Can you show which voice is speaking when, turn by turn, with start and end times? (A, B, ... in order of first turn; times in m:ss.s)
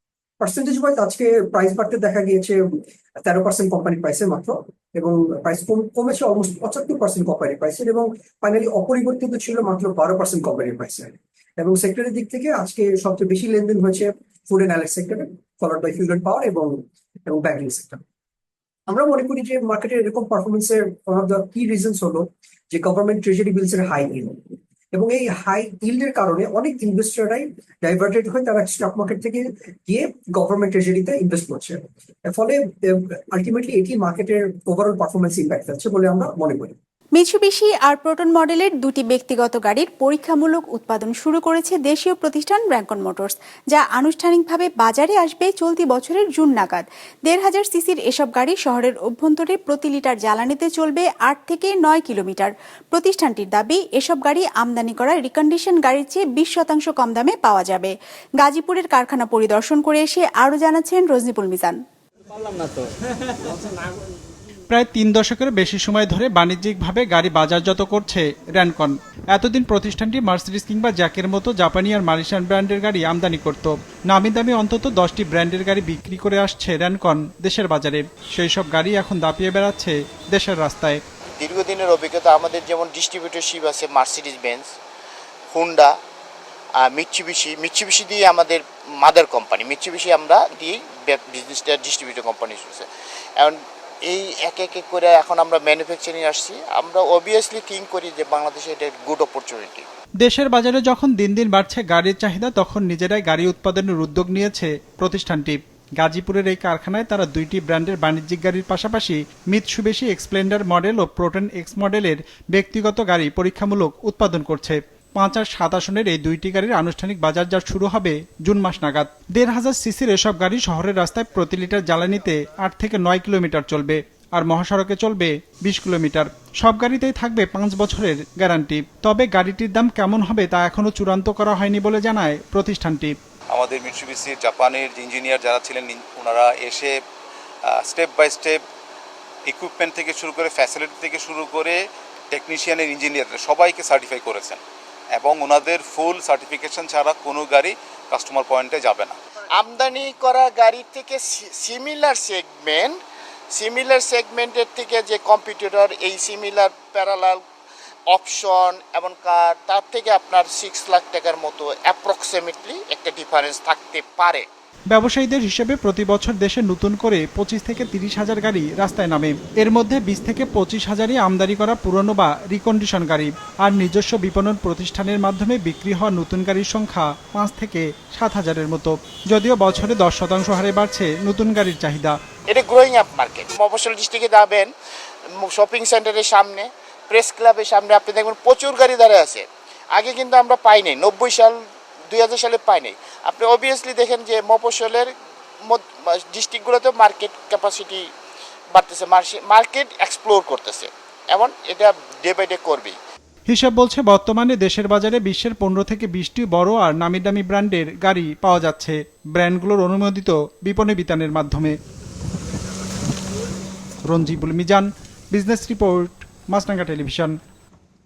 0:00.4-0:18.0 A
0:18.9-0:24.4 A
0:24.9-0:36.8 A
0:37.2-1:01.8 B
1:04.7-1:21.0 C
1:21.4-1:24.7 D
1:25.5-1:25.9 D
1:26.8-1:32.9 D
1:33.4-1:39.8 D
1:40.2-2:13.2 C
2:13.5-2:17.0 E
2:17.6-2:18.6 E
2:19.4-2:24.6 E
2:25.1-2:29.2 E
2:29.6-2:33.0 D
2:33.6-2:37.4 D
2:38.1-2:44.5 D
2:44.9-3:02.2 C
3:02.5-3:04.7 D
3:05.4-3:11.6 D
3:12.1-3:15.1 D
3:15.7-3:18.0 D
3:18.8-3:23.0 D
3:23.5-3:31.8 C
3:34.1-3:37.4 C